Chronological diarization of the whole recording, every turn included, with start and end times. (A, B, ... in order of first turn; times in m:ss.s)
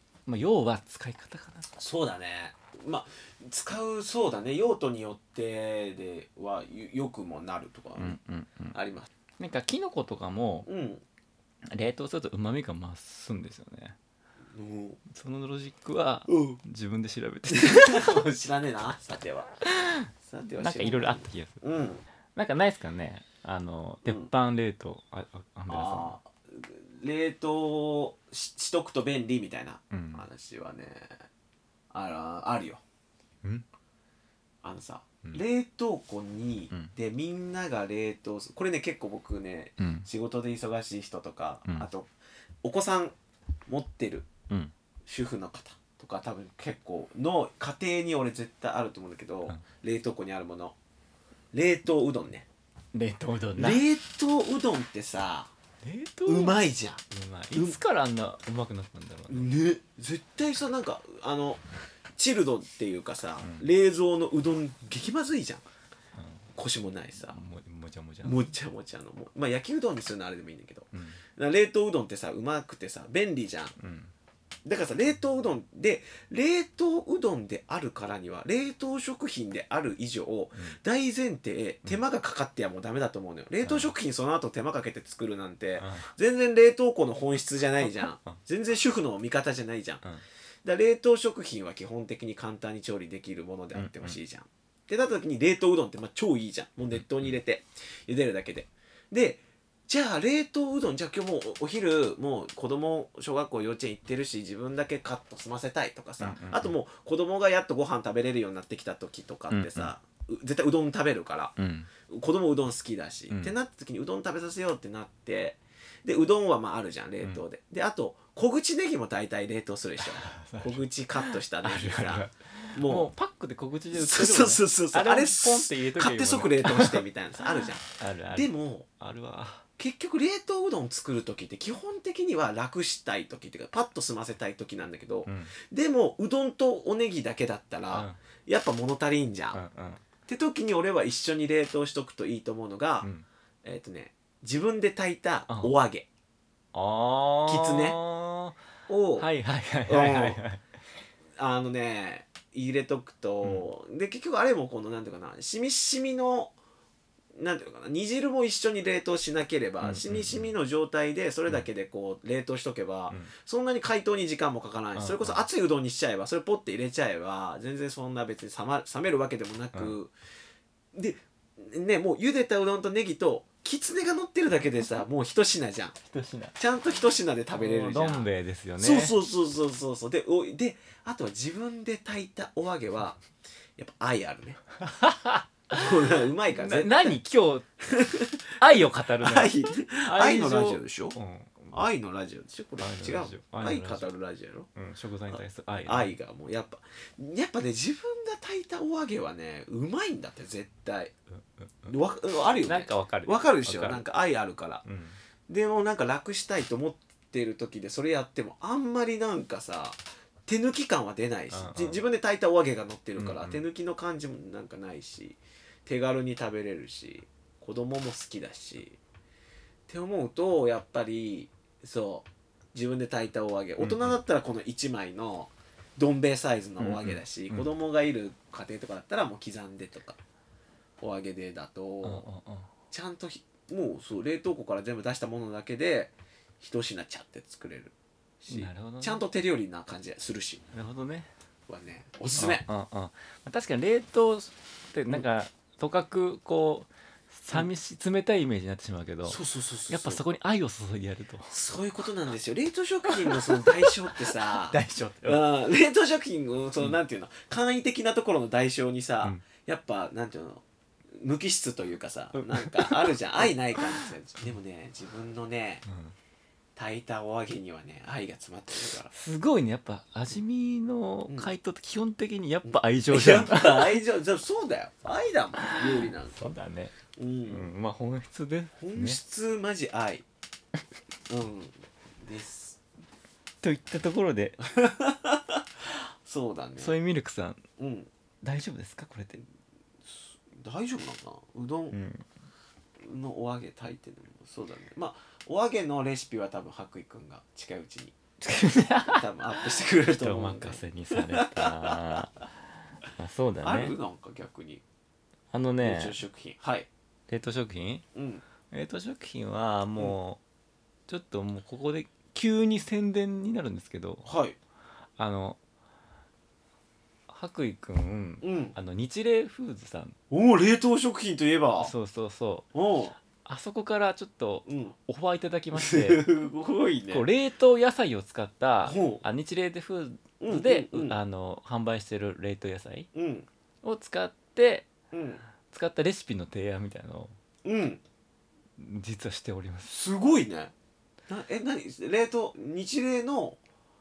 0:00.3-0:01.7 A
0:01.8-0:08.2 B
0:08.0-0:08.8 A
0:08.7-0:09.1 B
0:09.4-0:10.7 A
0:10.6-0:11.0 B
0:11.7-0:14.0 A
0:14.5-0:15.0 B
0:15.1-0:18.2 A
0:16.3-0:16.6 B
0:17.5-0:19.5 B
0:20.2-0:22.0 B
0:20.6-0:21.6 A
0:22.4-0:26.2 A
0:25.7-0:31.2 B
0:29.9-0:30.2 A
0:31.9-0:32.8 B
0:34.6-0:42.1 B
0:39.8-0:40.1 A
0:42.6-0:43.1 B
0:43.7-0:44.3 B
0:45.1-0:50.8 B
0:51.5-0:52.5 B
0:52.9-0:53.8 A
0:53.6-0:55.5 B
0:55.8-0:59.5 A
0:56.2-0:57.0 B
0:59.3-1:01.6 B
1:02.2-1:05.6 B
1:03.4-1:03.7 A
1:06.2-1:06.4 A
1:06.5-1:07.4 B
1:07.2-1:08.4 A
1:08.2-1:13.7 B
1:10.9-1:11.2 A
1:13.8-1:14.1 A
1:14.6-1:30.0 B
1:23.6-1:23.9 A
1:25.8-1:26.1 A
1:27.8-1:28.4 A
1:30.6-1:51.5 B
1:33.7-1:34.2 A
1:36.9-1:37.4 A
1:46.2-1:46.7 A
1:49.5-1:49.9 A
1:51.6-1:51.9 A
1:52.1-2:03.1 B
1:53.3-1:53.5 A
2:00.0-2:07.0 A
2:03.9-2:08.8 B
2:07.6-2:09.6 A
2:09.8-2:19.6 B
2:15.2-2:15.5 A
2:17.9-2:18.2 A
2:19.5-2:20.0 A
2:20.3-2:23.1 B
2:23.6-2:26.1 B
2:25.5-2:25.7 A
2:26.7-2:28.6 A
2:27.4-2:28.0 B
2:28.9-2:29.3 B
2:29.1-2:30.6 A
2:29.9-2:30.4 B
2:31.4-2:36.5 B
2:37.4-2:50.1 B
2:39.8-2:40.5 A
2:45.0-2:45.4 A
2:50.9-2:56.0 B
2:56.0-2:56.5 A
2:56.6-3:03.2 B
2:57.6-2:59.2 A
3:03.8-3:04.6 B
3:04.8-3:05.8 A
3:05.7-3:07.2 B
3:06.5-3:07.7 A
3:07.9-3:11.2 B
3:08.6-3:11.8 A
3:11.7-3:14.7 B
3:12.8-3:14.1 A
3:14.7-3:16.1 A
3:15.3-3:21.1 B
3:21.3-3:21.9 A
3:21.9-3:24.8 B
3:22.6-3:24.0 A
3:24.8-3:25.2 A
3:25.5-3:39.0 B
3:31.5-3:32.0 A
3:33.2-3:33.6 A
3:39.9-3:50.2 B
3:43.8-3:44.2 A
3:46.8-3:47.7 A
3:51.0-3:52.2 B
3:52.0-3:52.7 A
3:52.9-4:00.6 B
3:58.5-3:59.2 A
4:00.7-4:01.3 A
4:01.7-4:02.6 B
4:02.4-4:11.5 A
4:09.2-4:10.2 B
4:11.5-4:20.6 B
4:13.1-4:13.7 A
4:14.5-4:15.5 A
4:21.2-4:25.8 B
4:22.3-4:23.8 A
4:25.8-4:26.1 A
4:26.8-4:29.1 B
4:29.1-4:34.0 A
4:32.6-4:36.5 B
4:35.6-4:36.9 A
4:37.2-4:37.7 B
4:37.5-4:39.2 A
4:38.8-4:40.2 B
4:41.3-4:42.8 B
4:43.6-4:44.6 A
4:44.7-4:45.6 B
4:46.2-4:46.9 B
4:46.8-4:47.6 A
4:47.8-4:48.1 B
4:48.4-4:49.4 A
4:50.0-4:52.0 B
4:51.9-4:52.3 A
4:53.0-4:58.1 B
4:58.4-4:59.2 A
4:58.9-5:02.1 B
4:59.9-5:02.5 A
5:03.1-5:04.0 A
5:03.6-5:04.8 B
5:05.5-5:06.2 A
5:05.8-5:06.9 B
5:07.3-5:08.0 A
5:08.1-5:08.4 B
5:08.7-5:10.4 A
5:11.1-5:14.3 A
5:14.2-5:14.6 B
5:15.2-5:15.6 A
5:17.3-5:20.2 A
5:18.4-5:18.7 B
5:20.3-5:21.9 B
5:21.8-5:22.7 A
5:22.7-5:23.1 B
5:23.4-5:26.3 A
5:24.6-5:24.9 B
5:25.7-5:27.2 B
5:27.1-5:33.1 A
5:28.8-5:29.2 B
5:30.4-5:31.2 B
5:33.1-5:33.5 B
5:33.8-5:34.9 A
5:35.1-5:35.4 B
5:35.7-5:37.3 A
5:37.6-5:38.0 B
5:38.8-5:40.0 A
5:39.8-5:40.7 B
5:41.3-5:43.6 B